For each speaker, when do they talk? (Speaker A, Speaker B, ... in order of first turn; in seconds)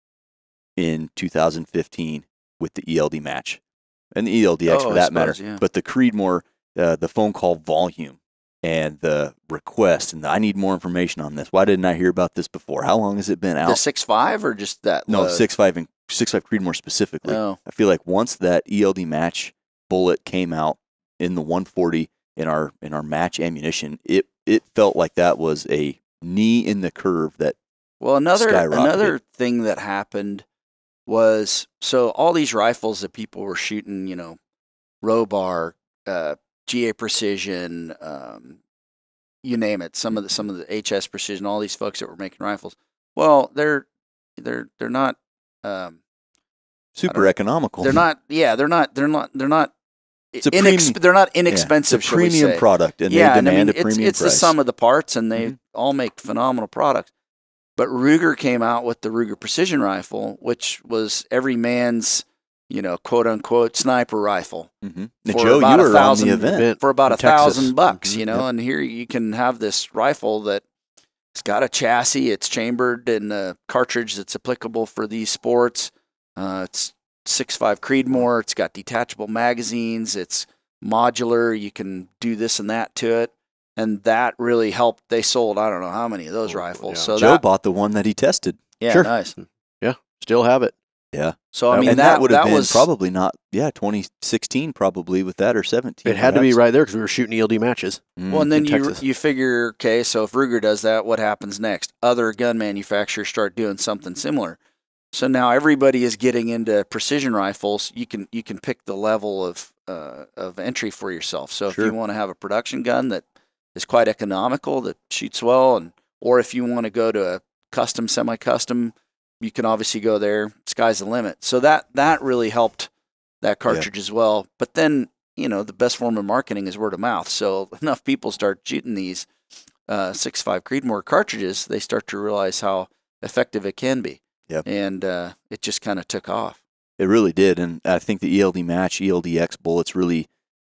Speaker A: 0.8-3.6, 4.1-13.8, 15.1-27.6, 28.4-29.1, 47.0-48.0, 50.4-51.0, 51.5-54.5, 64.8-66.7, 87.2-89.1, 91.1-96.6, 98.2-98.5, 137.0-140.3
Speaker B: 4.7-5.6, 13.6-15.4, 17.2-17.6, 28.0-30.4, 31.1-34.4, 35.0-38.6, 39.4-43.9, 44.4-46.0, 47.1-49.7, 50.3-57.1, 57.8-64.7, 65.3-70.6, 71.3-87.4, 88.8-89.4, 91.5-92.9, 98.3-104.6, 105.1-113.2, 113.7-122.9, 123.4-129.3, 129.9-136.6
Speaker C: 66.2-68.4, 86.5-87.1, 89.4-90.7, 91.7-92.0, 96.0-99.0